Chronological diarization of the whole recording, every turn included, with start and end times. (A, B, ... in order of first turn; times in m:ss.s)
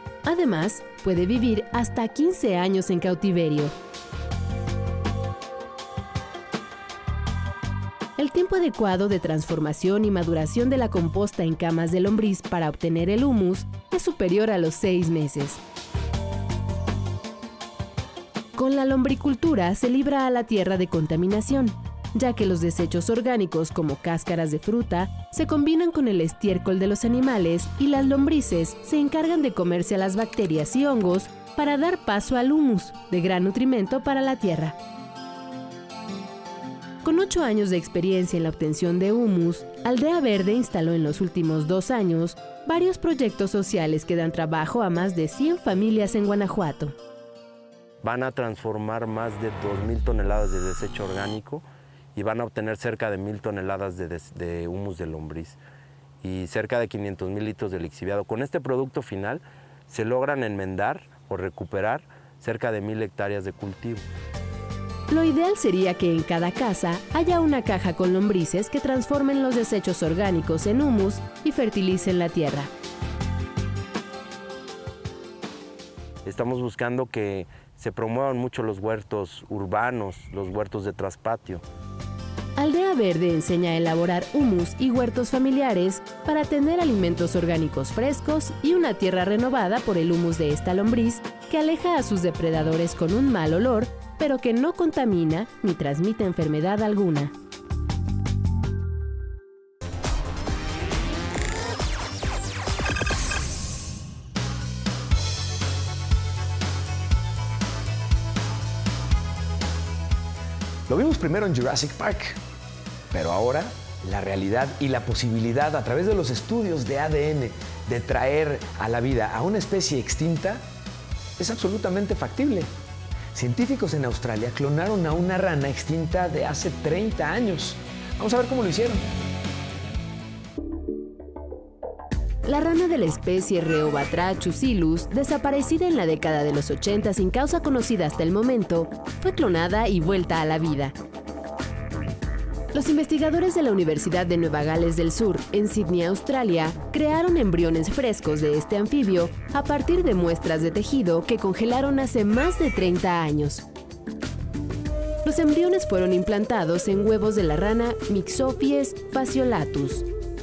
0:00.2-0:03.8 A
0:08.2-0:15.6 A
0:18.6-0:34.8 A
0:37.0-0:47.0 A
0:48.0-0:55.6 B
0:56.2-1:04.1 B
1:05.1-1:12.7 A
1:16.2-1:21.6 B
1:22.6-1:37.3 A
1:50.9-1:52.4 C
1:53.1-2:00.6 C
2:01.4-2:02.7 C
2:03.3-2:09.0 C
2:12.5-2:21.0 A
2:22.7-2:33.6 A
2:35.2-2:40.1 A